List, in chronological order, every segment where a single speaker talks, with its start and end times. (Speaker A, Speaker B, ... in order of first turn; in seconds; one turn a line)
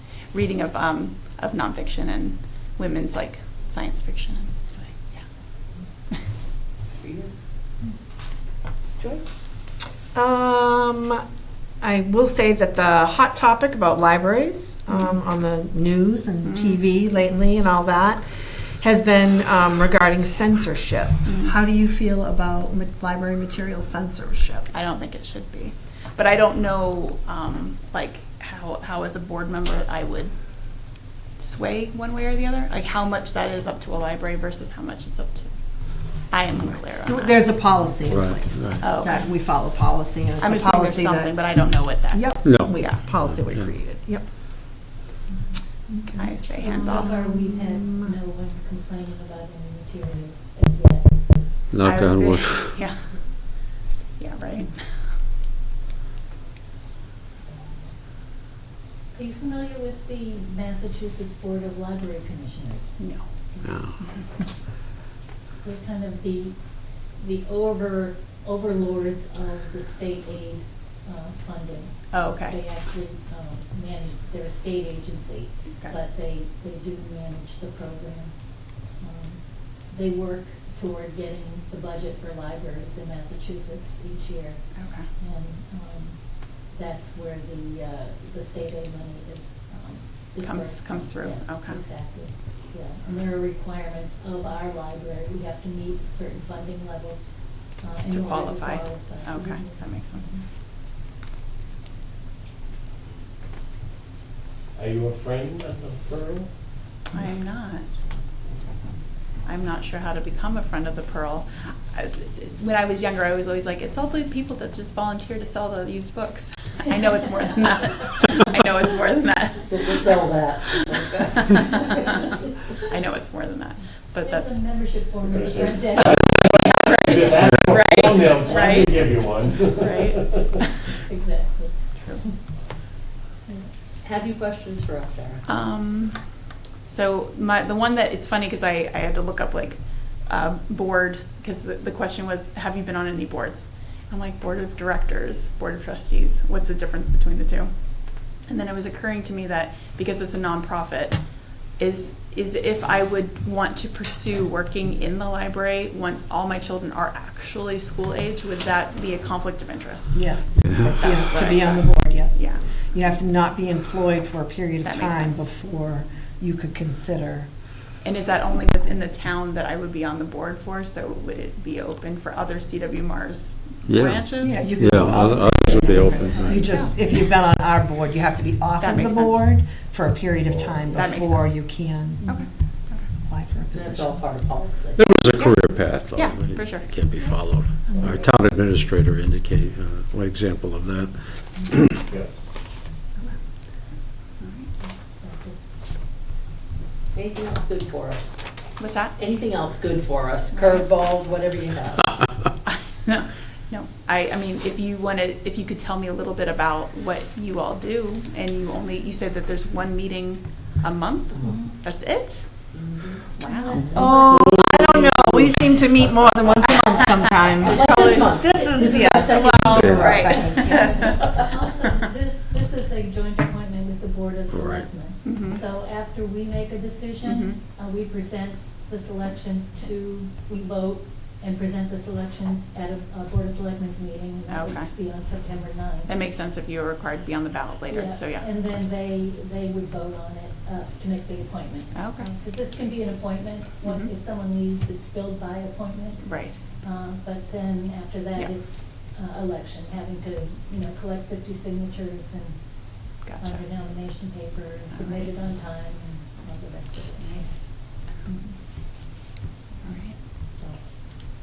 Speaker A: 0.3-5.2
Speaker B: 7.0-7.3
Speaker B: 9.0-9.3
Speaker C: 10.1-11.2
Speaker C: 11.8-18.2
Speaker A: 16.4-16.8
Speaker C: 18.8-24.7
Speaker A: 21.2-21.6
Speaker A: 24.7-37.4
Speaker C: 37.0-44.3
Speaker D: 38.1-38.8
Speaker A: 38.8-39.3
Speaker A: 40.4-43.0
Speaker D: 42.4-42.8
Speaker D: 43.3-43.7
Speaker C: 45.9-48.1
Speaker A: 46.2-47.2
Speaker E: 46.6-51.5
Speaker D: 51.7-52.8
Speaker A: 51.8-53.0
Speaker A: 53.6-54.7
Speaker E: 57.5-58.0
Speaker E: 59.1-63.0
Speaker A: 63.0-63.2
Speaker E: 63.6-64.5
Speaker D: 63.6-64.0
Speaker E: 65.6-100.4
Speaker A: 72.1-72.6
Speaker A: 84.8-85.1
Speaker A: 90.4-91.8
Speaker A: 98.1-100.3
Speaker F: 104.8-106.5
Speaker A: 107.1-107.9
Speaker A: 109.5-120.0
Speaker B: 119.7-122.3
Speaker A: 121.5-122.2
Speaker A: 122.8-124.6
Speaker E: 124.2-126.5
Speaker F: 125.2-130.5
Speaker A: 126.0-129.1
Speaker E: 128.5-129.4
Speaker A: 129.8-130.4
Speaker E: 130.9-132.4
Speaker A: 132.0-132.2
Speaker B: 134.0-135.4
Speaker A: 135.5-136.2
Speaker A: 136.8-147.7
Speaker A: 148.3-151.2
Speaker A: 151.8-160.3
Speaker C: 160.2-167.5
Speaker D: 160.6-161.0
Speaker A: 160.9-162.6
Speaker A: 164.8-165.4
Speaker A: 168.0-174.8
Speaker D: 173.9-176.6
Speaker C: 174.4-182.3
Speaker B: 175.6-176.7
Speaker A: 176.5-176.9
Speaker A: 178.8-179.6
Speaker F: 180.5-180.8
Speaker A: 180.9-183.1
Speaker C: 183.2-184.2
Speaker B: 183.7-185.0
Speaker D: 184.9-191.1
Speaker A: 186.1-187.0
Speaker E: 187.2-188.3
Speaker D: 191.7-192.0
Speaker A: 194.4-194.7
Speaker E: 194.8-195.6
Speaker B: 197.1-198.4
Speaker A: 198.8-199.2
Speaker B: 199.2-202.3
Speaker A: 202.7-212.5
Speaker B: 212.8-213.2
Speaker A: 213.4-213.8
Speaker E: 213.4-214.7
Speaker D: 213.8-215.4
Speaker B: 213.8-214.1
Speaker C: 213.9-220.9
Speaker B: 217.6-221.5
Speaker A: 217.7-221.2
Speaker D: 219.8-220.0
Speaker E: 220.5-236.1
Speaker D: 224.5-224.9
Speaker A: 225.2-225.6
Speaker A: 227.2-227.6
Speaker A: 234.5-234.9
Speaker A: 236.1-238.9
Speaker E: 237.9-258.5
Speaker A: 241.9-242.3
Speaker A: 243.8-244.1
Speaker A: 246.2-246.6
Speaker A: 253.2-253.6
Speaker A: 254.9-255.3
Speaker A: 257.2-257.5
Speaker A: 259.8-260.2
Speaker E: 260.6-261.0